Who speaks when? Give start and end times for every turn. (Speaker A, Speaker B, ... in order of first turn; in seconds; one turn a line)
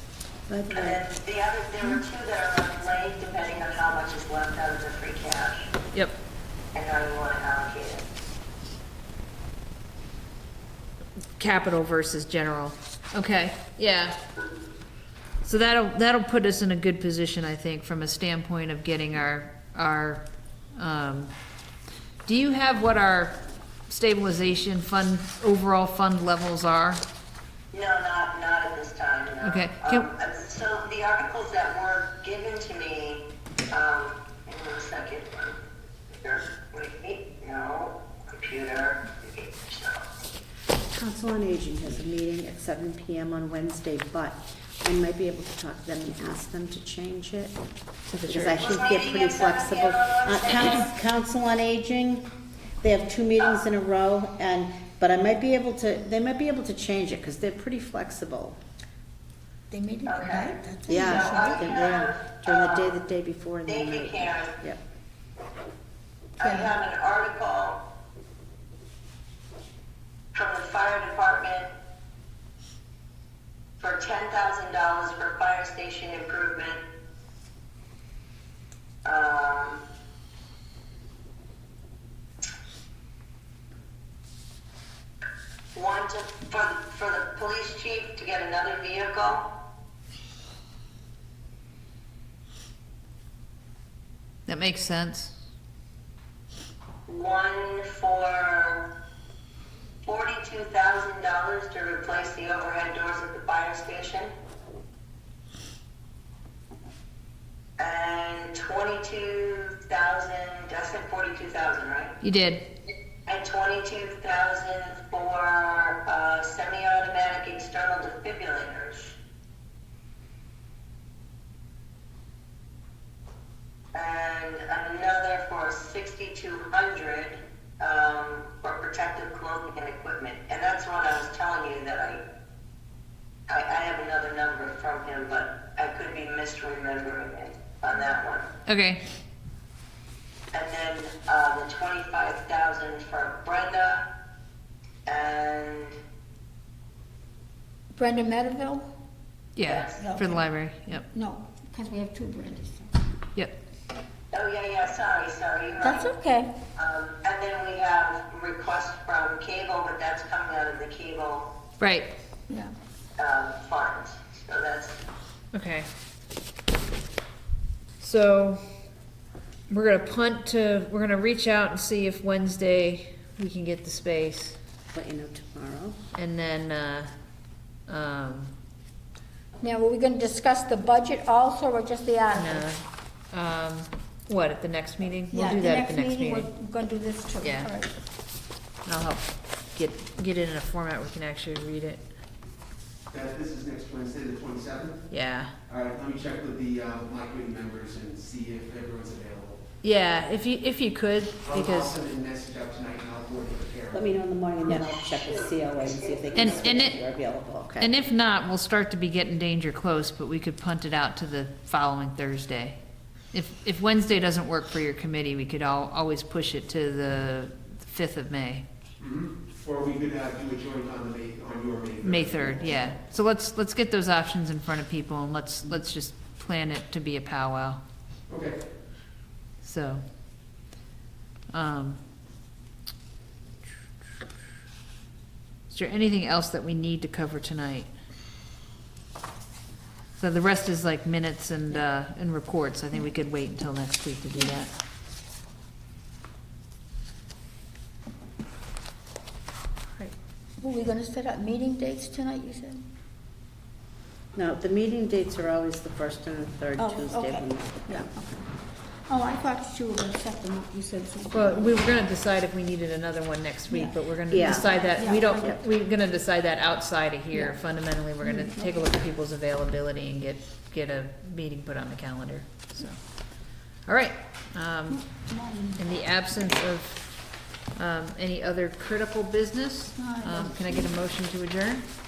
Speaker A: 0.5-1.0
Speaker B: 0.7-5.7
Speaker B: 6.7-8.1
Speaker C: 11.4-14.2
Speaker C: 15.4-20.2
Speaker C: 20.8-21.3
Speaker C: 22.2-23.4
Speaker C: 23.9-27.0
Speaker B: 27.7-35.6
Speaker C: 29.4-30.1
Speaker B: 36.1-40.0
Speaker A: 40.9-47.6
Speaker C: 48.1-48.6
Speaker A: 48.2-52.3
Speaker B: 48.6-50.9
Speaker A: 52.8-58.6
Speaker B: 53.4-53.6
Speaker D: 59.7-61.6
Speaker B: 60.0-62.9
Speaker A: 60.9-64.8
Speaker B: 63.7-64.5
Speaker B: 66.4-67.8
Speaker D: 66.4-66.7
Speaker B: 70.3-71.7
Speaker B: 73.8-76.8
Speaker B: 79.0-79.8
Speaker B: 85.7-89.4
Speaker C: 94.5-95.3
Speaker B: 97.1-98.8
Speaker B: 100.0-104.3
Speaker B: 107.8-112.2
Speaker C: 112.2-112.6
Speaker B: 113.2-119.1
Speaker B: 123.9-132.2
Speaker B: 133.5-138.5
Speaker C: 138.7-139.0
Speaker B: 140.5-144.0
Speaker B: 145.1-146.0
Speaker D: 147.9-148.9
Speaker C: 149.6-151.1
Speaker B: 149.6-150.1
Speaker D: 150.0-150.4
Speaker D: 151.1-152.9
Speaker B: 154.3-156.1
Speaker D: 155.8-156.5
Speaker B: 156.8-161.5
Speaker C: 161.8-162.1
Speaker D: 162.5-162.7
Speaker B: 163.2-165.0
Speaker C: 165.5-165.9
Speaker C: 168.0-168.6
Speaker C: 169.7-174.6
Speaker A: 174.9-176.0
Speaker C: 176.1-177.1
Speaker C: 177.9-178.5
Speaker D: 179.6-182.7
Speaker C: 182.3-186.5
Speaker D: 185.3-187.9
Speaker C: 187.4-187.7
Speaker C: 188.8-192.0
Speaker E: 193.1-195.1
Speaker C: 195.1-195.5
Speaker E: 195.7-199.6
Speaker C: 199.8-201.9
Speaker E: 201.4-204.1
Speaker A: 203.9-207.9
Speaker B: 204.6-206.9
Speaker C: 206.4-207.0
Speaker C: 207.8-212.8
Speaker C: 213.3-218.6
Speaker E: 219.0-222.9
Speaker C: 222.0-227.8
Speaker E: 228.3-228.6
Speaker C: 229.6-230.0
Speaker C: 231.5-232.0
Speaker C: 235.7-237.9
Speaker C: 240.2-244.7
Speaker D: 250.6-252.8
Speaker A: 254.3-258.1
Speaker D: 256.8-258.4
Speaker D: 259.1-262.0
Speaker C: 261.3-275.2
Speaker D: 263.7-263.9
Speaker A: 264.3-264.8
Speaker D: 264.9-265.5
Speaker A: 265.3-265.6
Speaker D: 268.2-268.8
Speaker D: 274.9-275.8
Speaker C: 275.8-277.1
Speaker C: 277.7-281.8
Speaker D: 280.0-280.8